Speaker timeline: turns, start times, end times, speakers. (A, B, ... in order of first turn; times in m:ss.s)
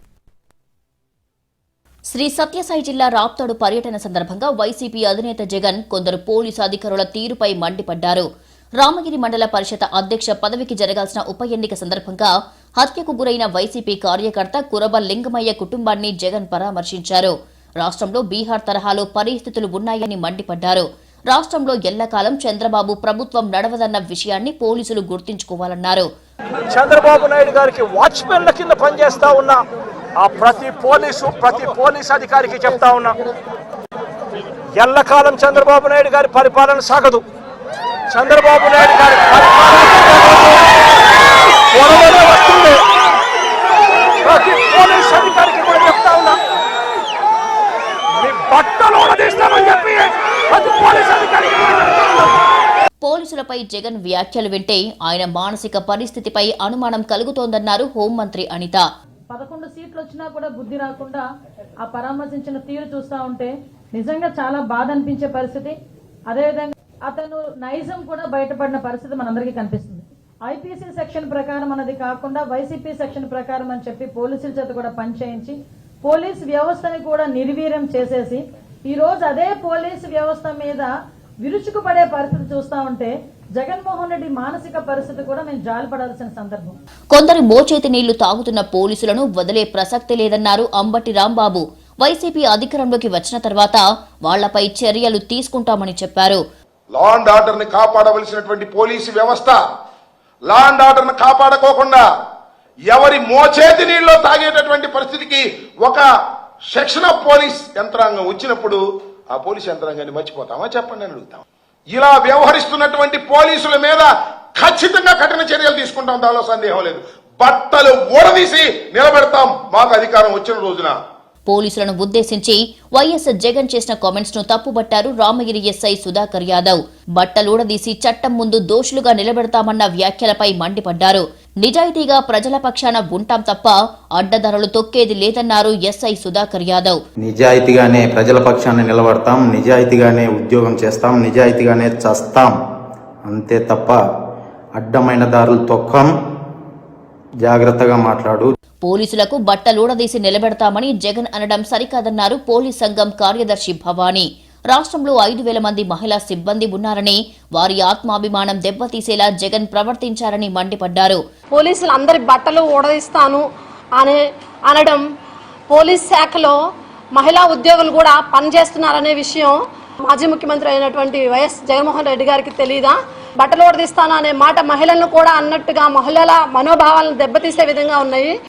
0:02.1-0:08.2 A
0:08.8-0:26.1 A
0:26.7-0:29.6 B
0:30.2-0:33.2 B
0:34.7-0:37.2 B
0:38.1-0:40.7 B
0:41.7-0:42.8 B
0:44.2-0:46.4 B
0:48.2-0:52.0 B
0:53.0-0:58.8 A
0:59.3-1:01.2 C
1:01.8-1:05.7 C
1:06.3-1:20.9 C
1:21.4-1:26.8 C
1:27.1-1:36.4 A
1:36.9-1:39.6 D
1:40.5-1:42.0 D
1:42.9-1:46.0 D
1:46.7-2:01.0 D
2:01.5-2:17.0 A
2:17.2-2:22.5 E
2:23.3-2:24.0 E
2:24.8-2:26.1 E
2:27.4-2:28.5 E
2:28.8-2:41.2 A
2:41.5-2:43.4 F
2:44.0-2:45.0 F
2:45.7-2:46.6 F
2:47.1-2:58.3 F